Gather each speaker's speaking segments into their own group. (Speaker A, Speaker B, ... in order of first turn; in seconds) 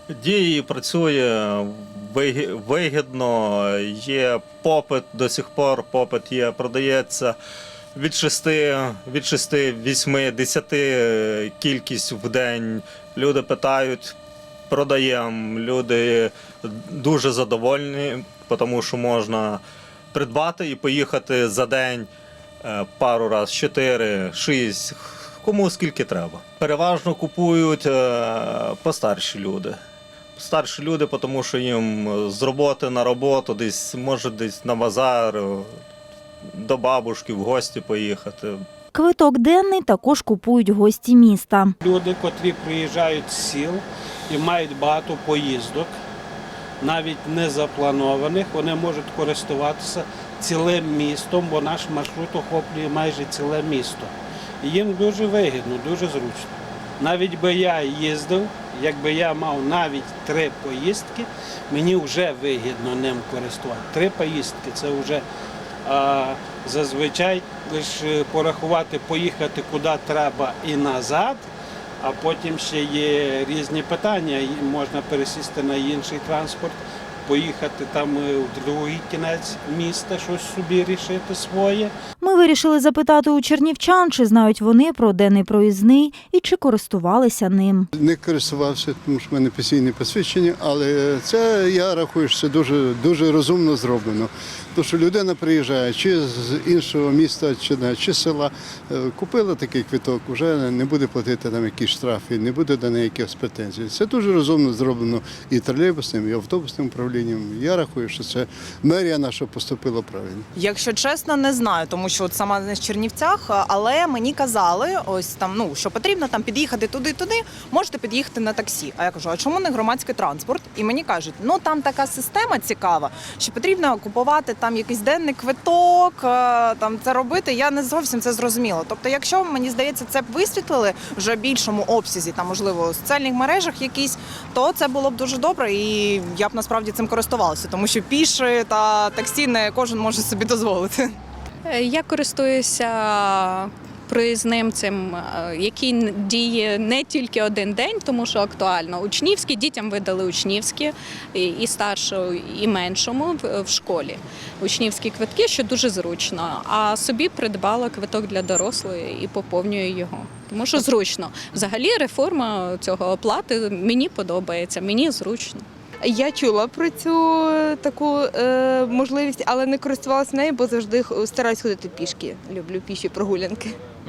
Speaker A: 0.1-7.3, 7.9-14.1, 14.7-19.6, 20.1-22.1, 22.6-29.8, 30.4-35.8, 36.5-38.6
Speaker B: 38.9-41.7, 82.2-87.9
Speaker C: 41.8-45.9, 46.8-65.2, 65.8-71.5, 72.0-81.9
Speaker D: 88.0-110.5
Speaker E: 110.5-141.1
Speaker F: 141.7-165.6
Speaker G: 166.0-173.7